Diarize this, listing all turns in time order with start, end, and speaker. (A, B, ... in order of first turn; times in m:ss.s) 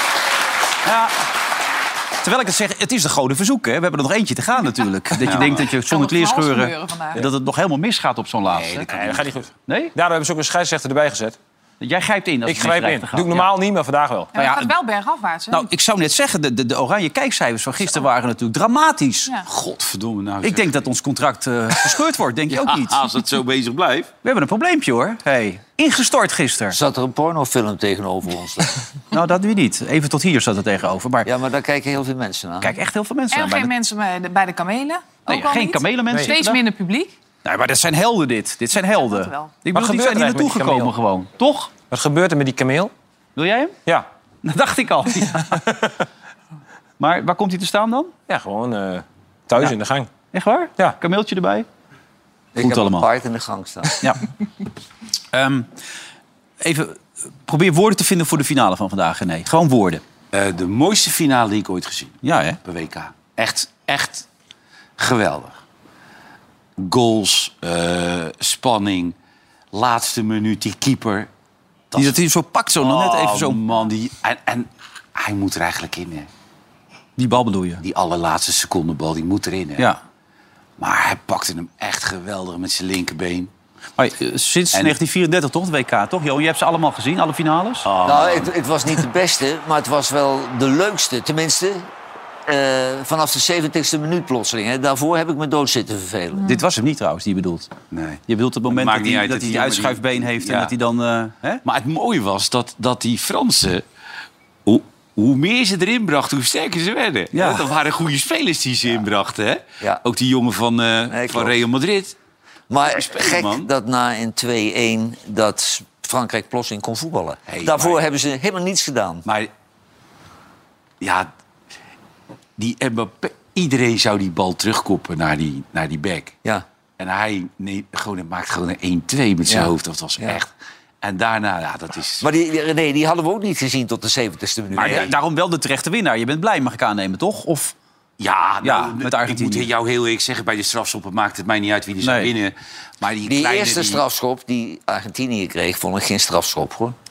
0:00.8-0:01.1 A
0:02.2-0:08.9 A
0:05.2-0:05.6 B
0:05.2-0:07.3 C
0:08.5-0:09.4 B
0:08.9-0:11.4 D
0:09.7-0:09.9 A
0:11.8-0:13.5 A
0:12.4-0:14.3 D
0:14.3-0:15.7 C
0:14.4-0:14.7 A
0:15.5-0:19.3 A
0:19.5-0:20.8 B
0:20.4-0:23.1 A
0:22.5-0:24.1 B
0:24.2-0:26.8 A
0:26.7-0:28.7 E
0:29.1-0:31.3 A
0:31.2-0:32.7 E
0:32.6-0:33.7 A
0:33.3-0:37.1 C
0:35.3-0:36.6 A
0:37.4-0:41.7 A
0:38.8-0:39.6 C
0:39.7-0:40.9 D
0:41.9-0:42.9 D
0:43.4-0:43.8 A
0:44.4-0:45.6 A
0:45.5-0:45.9 D
0:47.0-0:48.1 A
0:48.3-0:50.1 D
0:50.3-0:51.7 A
0:52.5-0:54.0 E
0:52.6-0:53.0 A
0:55.3-0:55.7 A
0:56.6-1:00.0 A
1:00.3-1:04.2 B
1:02.2-1:02.6 A
1:05.0-1:05.6 B
1:06.8-1:09.1 B
1:09.7-1:11.3 B
1:11.9-1:12.2 B
1:12.0-1:13.6 A
1:12.8-1:16.3 B
1:17.2-1:17.8 A
1:17.8-1:19.9 B
1:20.8-1:23.5 B
1:24.0-1:27.9 A
1:27.8-1:28.5 B
1:28.0-1:31.9 E
1:32.5-1:36.4 E
1:36.4-1:37.7 A
1:37.9-1:40.7 B
1:38.3-1:41.6 A
1:41.6-1:43.8 B
1:44.6-1:52.1 B
1:47.3-1:47.7 A
1:51.1-1:51.5 E
1:52.7-1:59.2 E
1:52.8-1:53.7 B
1:57.5-1:58.0 B
2:01.0-2:01.3 B
2:02.6-2:06.4 B
2:07.0-2:10.5 B
2:09.5-2:10.4 E
2:11.0-2:12.3 B
2:12.2-2:15.1 E
2:14.7-2:17.7 A
2:14.8-2:15.1 B
2:18.2-2:24.0 B
2:18.6-2:19.7 A
2:22.0-2:22.3 A
2:23.2-2:27.0 E